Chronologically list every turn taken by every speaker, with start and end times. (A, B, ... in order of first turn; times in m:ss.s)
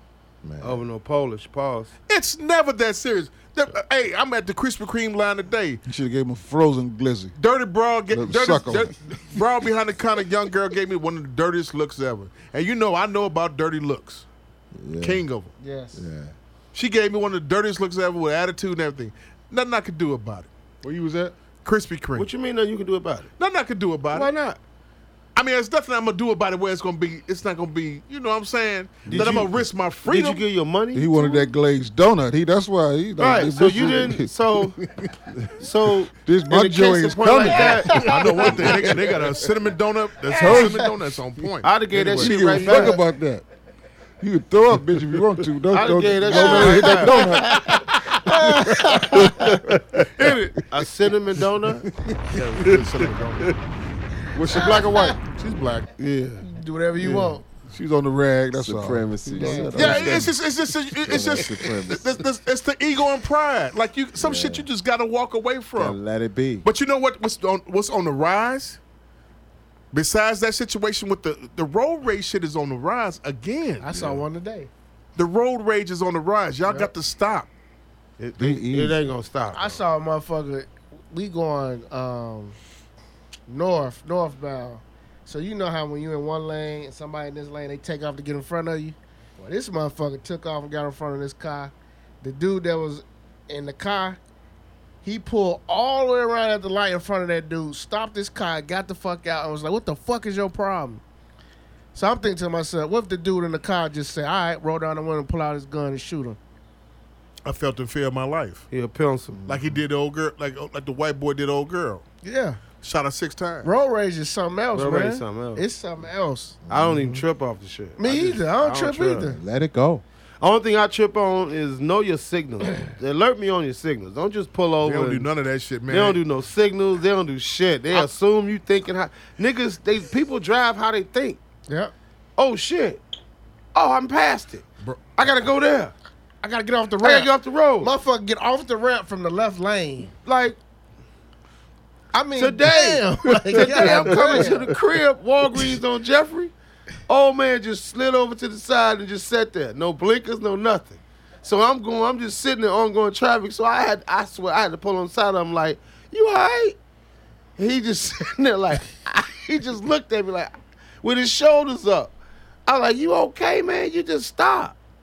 0:00.4-0:00.8 A
0:00.6-0:01.9 B
0:02.1-0:05.8 C
0:05.8-0:07.3 D
0:07.4-0:14.2 C
0:08.1-0:08.9 D
0:14.7-0:15.2 A
0:15.0-0:15.5 C
0:15.6-0:16.1 E
0:15.9-0:16.4 A
0:16.7-0:20.5 C
0:20.8-0:21.4 D
0:21.6-0:22.3 C
0:22.1-0:23.3 B
0:23.4-0:24.3 C
0:24.1-0:24.6 B
0:25.3-0:30.4 C
0:29.1-0:29.5 D
0:29.1-0:29.4 A
0:29.1-0:29.5 B
0:30.0-0:31.2 B
0:30.9-0:35.3 D
0:33.2-0:34.8 B
0:35.6-0:38.5 B
0:36.1-0:39.4 D
0:37.9-0:42.8 C
0:40.3-0:41.0 D
0:41.6-0:43.0 B
0:42.1-0:43.4 D
0:44.2-0:50.4 D
0:45.7-0:47.7 B
0:46.3-0:47.7 E
0:48.2-0:49.2 E
0:50.1-0:50.7 C
0:50.7-0:51.8 B
0:51.7-0:52.8 D
0:52.3-0:53.6 C
0:54.3-0:55.2 D
0:54.5-0:55.1 E
0:54.5-0:55.9 C
0:56.0-0:56.4 D
0:56.4-0:57.4 E
0:57.0-1:00.3 D
0:58.5-1:00.3 A
0:59.4-1:00.0 E
0:59.7-1:06.0 C
1:01.0-1:02.2 A
1:04.2-1:04.7 A
1:05.8-1:06.6 A
1:06.6-1:08.8 C
1:09.9-1:13.9 C
1:13.8-1:14.7 E
1:13.9-1:14.2 A
1:15.2-1:17.5 C
1:18.2-1:19.8 B
1:18.4-1:19.1 A
1:19.5-1:22.6 E
1:23.5-1:34.2 E
1:35.0-1:41.0 E
1:41.9-1:46.4 E
1:47.4-1:48.7 C
1:48.7-1:49.4 B
1:49.3-1:49.8 A
1:49.5-1:52.0 C
1:52.2-1:52.6 E
1:52.8-1:53.7 C
1:53.6-1:56.6 E
1:54.7-1:55.6 B
1:56.7-1:57.2 A
1:56.7-1:59.4 B
1:58.0-1:59.4 E
1:59.3-2:00.0 A
2:00.4-2:05.3 B
2:04.8-2:06.2 C
2:05.9-2:11.4 B
2:11.7-2:11.9 E
2:12.4-2:13.0 B
2:13.7-2:14.6 B
2:14.8-2:15.1 C
2:15.2-2:15.9 B
2:16.4-2:20.1 E
2:17.0-2:17.9 B
2:20.2-2:20.6 B
2:22.1-2:24.7 E
2:22.4-2:26.5 B
2:27.1-2:36.8 B
2:37.6-2:44.8 B